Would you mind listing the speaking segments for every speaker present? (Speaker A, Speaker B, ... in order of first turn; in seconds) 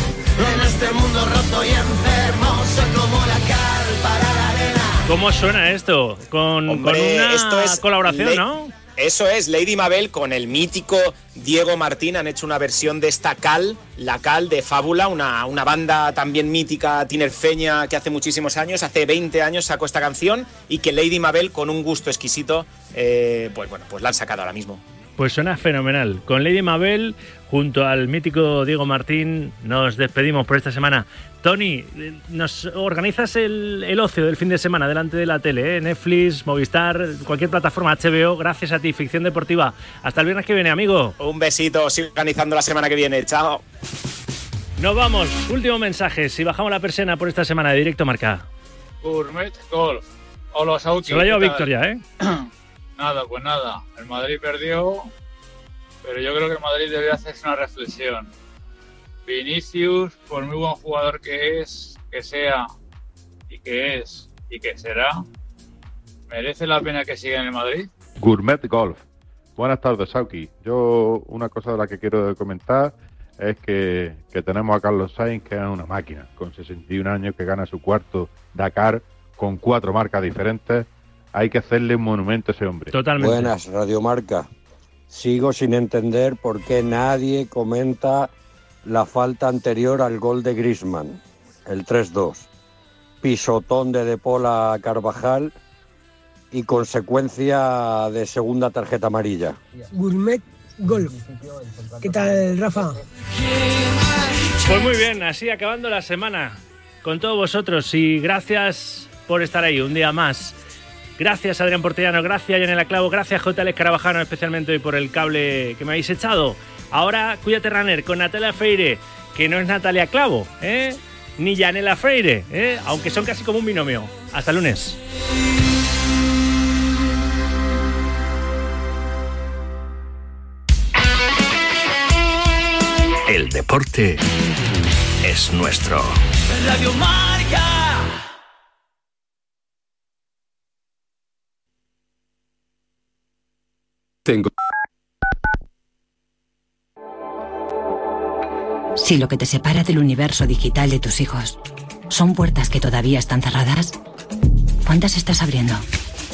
Speaker A: 0.9-3.2
Speaker B: 5.0-8.7, 25.2-41.1, 44.8-48.5, 51.1-52.0, 82.9-83.5, 104.7-110.5, 111.2-125.0
Speaker C: 6.7-8.4, 9.0-24.8, 41.2-43.6
Speaker D: 49.0-50.0, 50.5-51.6, 53.0-55.1, 56.0-58.3, 59.3-62.6, 63.5-65.2, 66.3-67.9
Speaker E: 68.2-69.0, 69.6-82.9
Speaker F: 83.2-84.5, 85.1-88.3, 88.9-92.5, 93.2-95.5, 96.5-99.6, 133.3-134.2, 135.2-136.2
Speaker G: 99.9-101.2, 102.0-103.0
Speaker H: 149.0-151.6, 152.1-153.9, 154.9-155.8